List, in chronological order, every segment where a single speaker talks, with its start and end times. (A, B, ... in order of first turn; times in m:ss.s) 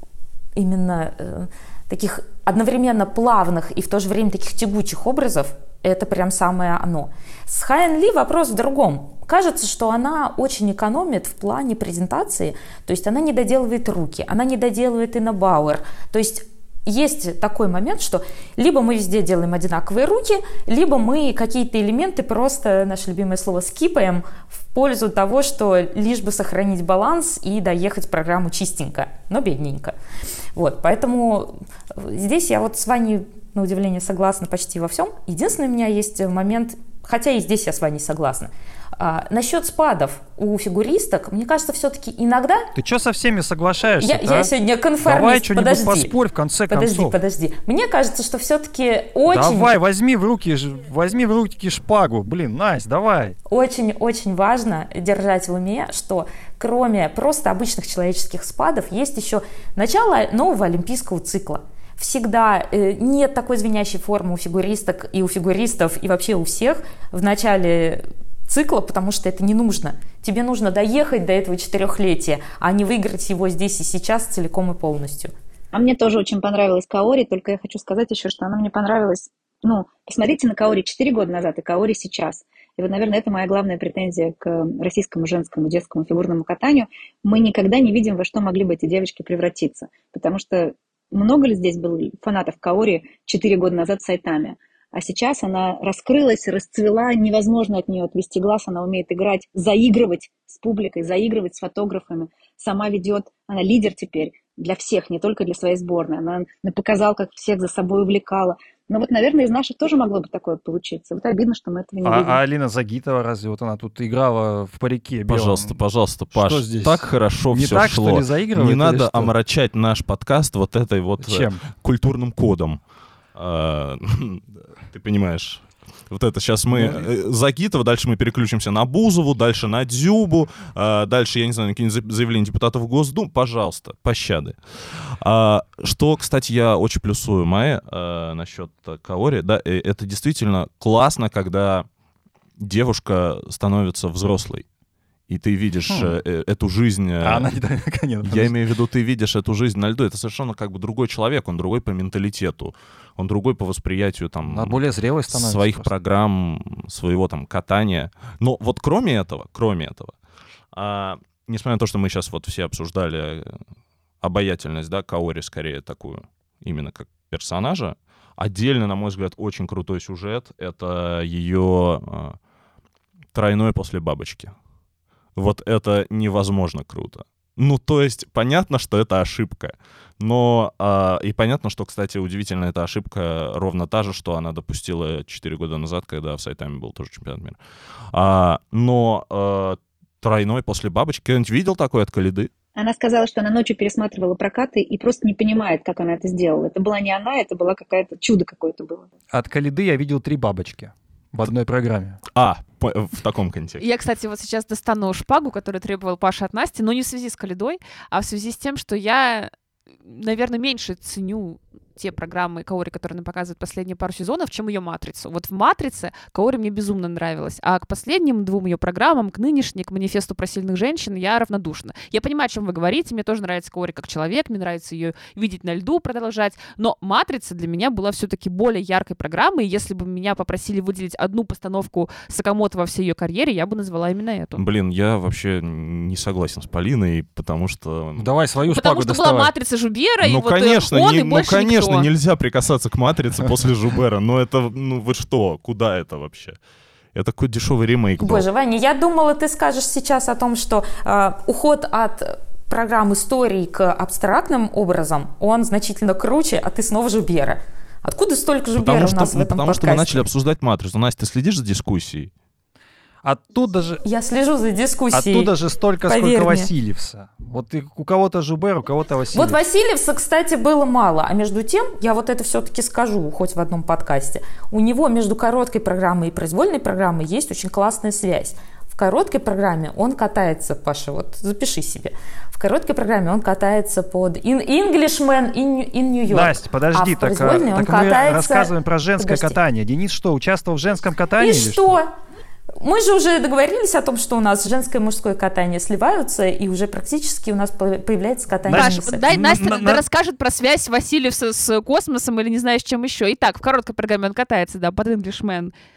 0:00.6-0:29.9 A
0:30.5-0:42.7 A
0:42.7-0:44.5 B
0:44.0-0:46.1 A
0:45.0-0:47.2 B
0:46.7-0:49.7 A
0:49.3-0:53.4 B
0:53.5-1:15.3 A
1:15.7-1:52.4 C
1:52.0-1:55.8 B
1:55.3-2:02.8 D
1:56.3-1:59.3 B
2:01.2-2:01.6 B
2:03.3-2:21.8 D
2:06.7-2:07.1 B
2:22.6-2:24.6 D
2:25.3-2:27.5 D
2:25.9-2:26.2 B
2:27.2-2:28.5 B
2:28.2-2:34.8 D
2:34.4-2:35.9 B
2:35.3-2:40.1 D
2:40.7-2:43.6 D
2:44.2-2:52.4 D
2:53.3-2:54.5 D
2:55.4-3:07.6 D
3:08.1-3:12.5 D
3:12.8-3:19.1 C
3:19.3-3:22.2 B
3:22.3-3:23.8 D
3:23.8-3:29.5 E
3:30.0-3:54.6 E
3:54.6-3:58.3 D
3:58.2-3:59.5 B
3:58.6-4:02.1 E
4:00.2-4:06.6 D
4:07.1-4:08.4 D
4:08.2-4:20.3 A
4:18.8-4:22.3 D
4:23.2-4:24.0 B
4:24.0-4:26.7 A
4:25.1-4:29.6 B
4:29.3-4:49.6 A
4:46.3-4:52.0 B
4:51.4-4:52.1 A
4:52.8-4:59.3 A
4:58.7-5:00.0 B
4:58.7-5:05.7 E